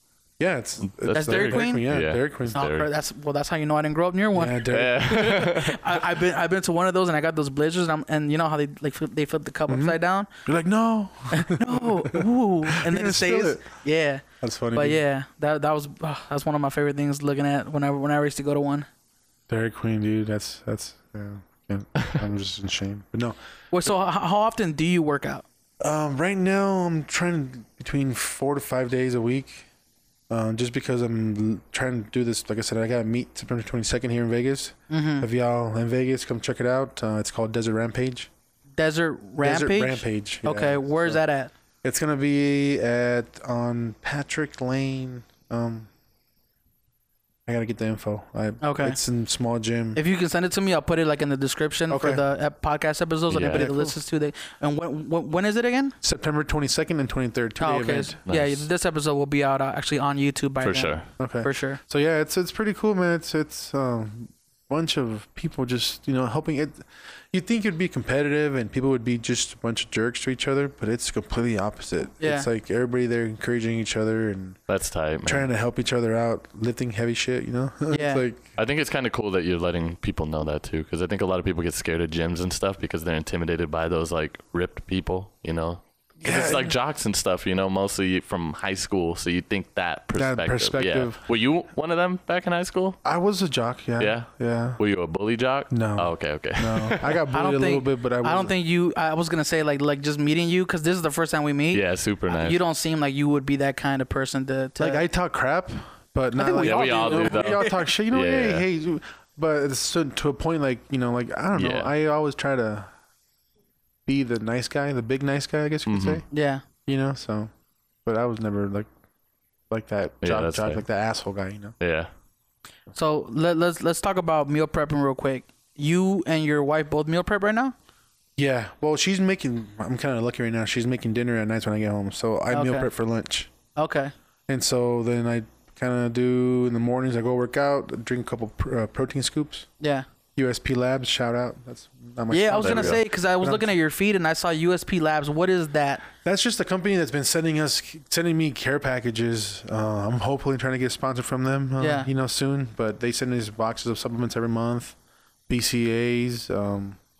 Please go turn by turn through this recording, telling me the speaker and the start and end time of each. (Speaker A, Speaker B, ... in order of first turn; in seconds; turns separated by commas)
Speaker A: 0.4-2.6, Speaker B: 0.9-2.9, Speaker C: 1.1-1.8, Speaker C: 2.5-10.3, Speaker A: 4.3-5.2, Speaker B: 4.7-6.0, Speaker A: 9.7-13.6, Speaker C: 11.3-18.9, Speaker A: 14.4-15.0, Speaker A: 19.5-23.4, Speaker C: 23.7-25.4, Speaker A: 25.8-29.6, Speaker A: 30.3-38.3, Speaker C: 34.9-35.3, Speaker C: 38.8-41.5, Speaker A: 39.4-41.2, Speaker A: 41.8-45.9, Speaker A: 47.5-50.0, Speaker C: 48.6-49.0, Speaker C: 50.0-55.9, Speaker A: 51.9-52.2, Speaker B: 53.3-53.7, Speaker A: 53.5-54.0, Speaker A: 56.0-58.2, Speaker C: 57.6-61.8, Speaker B: 58.3-58.6, Speaker B: 60.6-61.0, Speaker A: 61.2-74.6, Speaker C: 72.2-72.5, Speaker B: 74.7-75.5, Speaker A: 75.2-78.5, Speaker C: 77.9-78.2, Speaker B: 78.5-93.0, Speaker A: 86.2-86.7, Speaker A: 90.1-91.2, Speaker A: 93.0-94.8, Speaker B: 94.0-97.2, Speaker A: 95.7-98.5, Speaker C: 97.3-105.0, Speaker B: 101.7-102.6, Speaker A: 104.8-112.9, Speaker C: 106.3-107.7, Speaker B: 106.5-108.6, Speaker B: 111.5-111.9, Speaker A: 114.0-116.2, Speaker B: 115.9-116.2, Speaker C: 116.3-116.6, Speaker A: 116.9-117.5, Speaker A: 118.0-118.9, Speaker A: 119.7-121.8, Speaker B: 120.2-120.8, Speaker B: 121.8-122.1, Speaker C: 122.9-127.7, Speaker A: 128.4-133.5, Speaker C: 132.5-132.9, Speaker C: 133.8-134.1, Speaker A: 134.5-139.7, Speaker C: 139.8-140.1, Speaker A: 140.3-143.7, Speaker C: 142.3-146.0, Speaker B: 142.6-143.0, Speaker A: 146.2-154.9, Speaker C: 151.8-152.1, Speaker A: 155.5-157.0